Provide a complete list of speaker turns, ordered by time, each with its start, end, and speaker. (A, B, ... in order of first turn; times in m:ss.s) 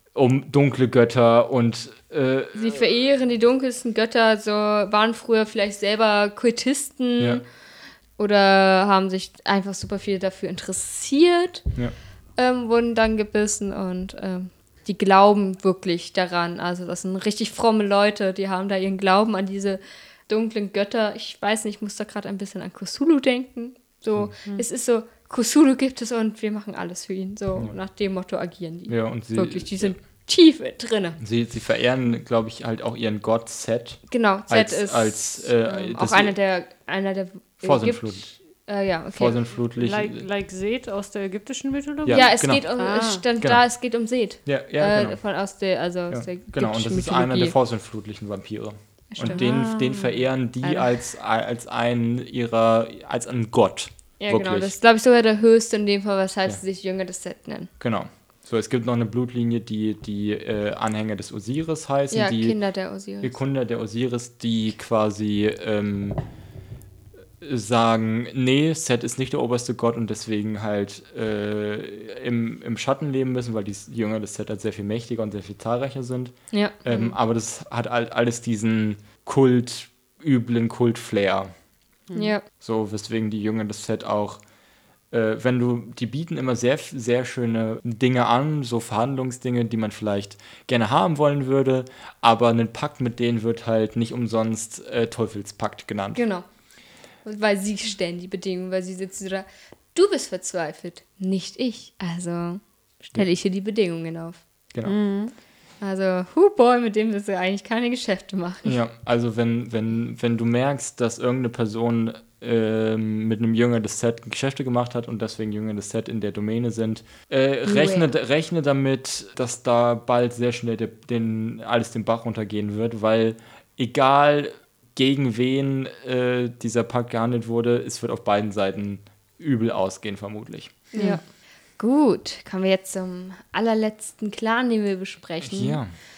0:00.1-0:02.8 A
0:02.5-0:07.4 B
0:08.2-0:11.7 B
0:12.4-0:31.2 B
0:28.9-0:30.0 A
0:31.2-0:36.3 A
0:34.1-0:39.4 B
0:37.6-0:38.2 A
0:39.1-0:40.2 A
0:39.8-0:43.2 C
0:42.0-0:42.6 A
0:42.1-0:47.5 B
0:44.4-0:45.2 A
0:46.1-0:54.7 A
0:49.1-0:49.4 B
0:49.2-0:50.2 C
0:50.6-0:50.9 B
0:54.2-0:57.7 B
0:57.8-1:02.6 A
1:02.1-1:03.3 B
1:03.2-1:06.2 A
1:07.4-1:21.5 A
1:16.5-1:17.2 B
1:22.1-1:22.4 C
1:22.1-1:22.4 B
1:22.6-1:24.4 A
1:25.1-1:36.2 A
1:36.1-1:36.4 B
1:37.2-1:44.4 B
1:44.8-1:45.3 C
1:45.8-1:48.7 B
1:48.6-2:10.9 A
1:57.6-1:58.1 B
2:10.9-2:11.2 B
2:11.8-2:15.9 B
2:15.4-2:16.0 A